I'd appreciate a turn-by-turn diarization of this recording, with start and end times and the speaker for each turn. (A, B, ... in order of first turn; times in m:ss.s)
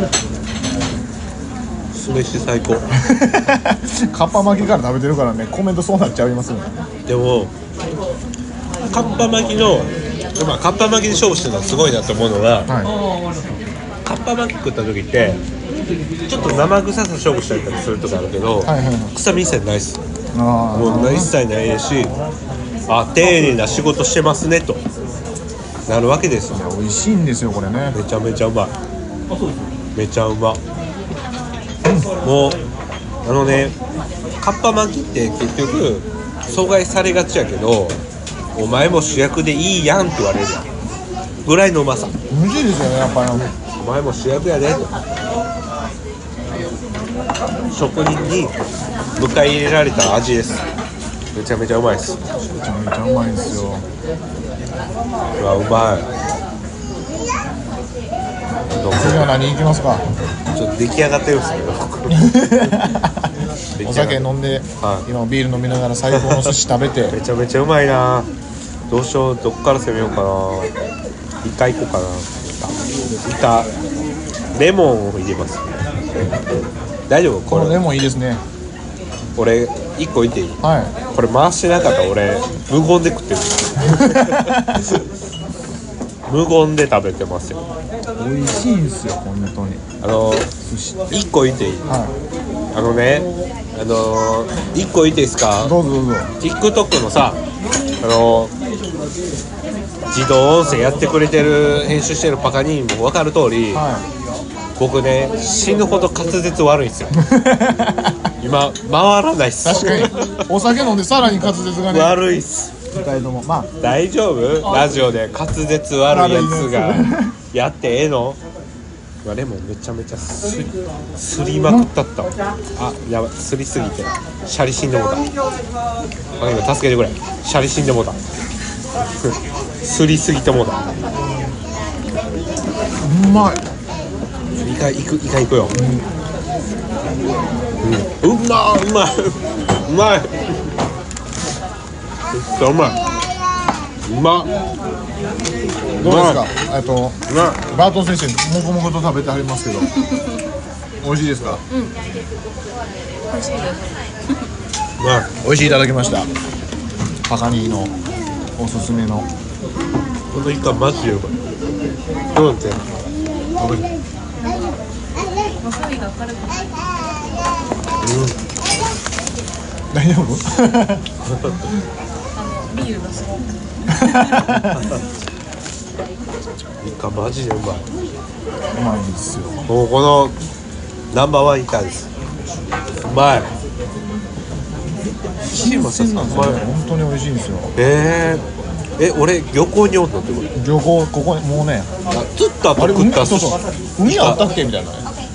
0:01.9-0:02.9 A
0:03.0-0:06.7 B
0:07.1-0:07.5 A
0:08.9-0:12.7 A
0:12.7-0:12.9 B
0:14.0-0:15.4 A
0:16.3-0:20.0 A
0:18.6-0:19.1 B
0:20.3-0:21.3 B
0:20.7-0:22.1 A
0:22.9-0:24.8 A
0:25.9-0:26.7 A
0:26.5-0:28.0 B
0:27.9-0:28.8 A
0:30.0-0:30.6 A
0:32.2-0:32.6 A
0:33.2-0:33.8 A
0:34.4-0:38.0 A
0:38.6-0:40.7 A
0:41.4-0:42.2 A
0:42.3-0:43.5 B
0:43.4-0:44.9 A
0:47.7-0:48.6 A
0:49.2-0:50.6 A
0:51.3-0:52.2 A
0:52.6-0:53.9 B
0:55.4-0:56.1 A
0:58.7-0:59.4 A
0:58.9-1:00.0 B
1:00.5-1:02.8 A
1:02.1-1:03.3 B
1:03.8-1:04.3 A
1:03.8-1:07.2 B
1:04.8-1:05.1 A
1:06.1-1:06.6 A
1:07.1-1:08.3 A
1:08.9-1:10.8 A
1:11.4-1:13.7 A
1:14.5-1:15.8 A
1:17.1-1:17.8 A
1:17.5-1:18.4 B
1:19.4-1:25.1 A
1:20.6-1:21.0 B
1:23.9-1:24.8 B
1:26.3-1:27.6 A
1:28.2-1:29.8 B
1:30.0-1:30.5 A
1:30.6-1:31.0 B
1:31.1-1:31.9 A
1:31.9-1:32.1 B
1:32.7-1:35.8 A
1:35.6-1:36.3 B
1:36.4-1:37.4 A
1:38.0-1:38.5 A
1:40.1-1:43.8 A
1:43.7-1:44.0 B
1:44.8-1:47.2 A
1:47.2-1:48.2 B
1:48.4-1:50.5 A
1:49.6-1:52.2 B
1:51.9-1:52.7 A
1:52.9-1:53.7 B
1:53.8-1:58.4 A
1:56.1-1:57.3 B
1:59.2-2:05.3 A
2:06.4-2:08.2 A
2:09.8-2:10.9 A
2:13.0-2:13.6 B
2:14.6-2:15.8 A
2:15.7-2:16.1 B
2:17.8-2:20.3 A
2:22.4-2:23.0 A
2:24.1-2:24.5 A
2:26.0-2:27.2 B
2:26.0-2:26.5 A
2:27.3-2:27.6 A
2:27.7-2:29.9 B
2:31.0-2:31.6 B
2:33.3-2:34.0 C
2:35.0-2:35.3 A
2:35.4-2:36.3 B
2:37.3-2:37.9 B
2:38.6-2:39.3 B
2:40.3-2:41.3 A
2:42.3-2:42.8 A
2:43.6-2:43.9 B
2:45.6-2:46.8 C
2:48.0-2:48.4 A
2:49.9-2:51.0 B
2:51.3-2:51.7 A
2:52.3-2:54.2 C
2:53.9-2:54.8 B
2:54.7-2:55.0 A
2:56.8-2:57.8 A
2:58.7-2:59.6 B
2:59.7-3:00.4 A
3:01.1-3:02.1 A
3:03.0-3:03.5 A
3:05.5-3:07.7 B
3:05.5-3:06.6 A
3:07.8-3:08.4 A
3:09.0-3:10.5 A
3:10.6-3:11.9 B
3:12.1-3:14.4 A
3:12.8-3:15.1 B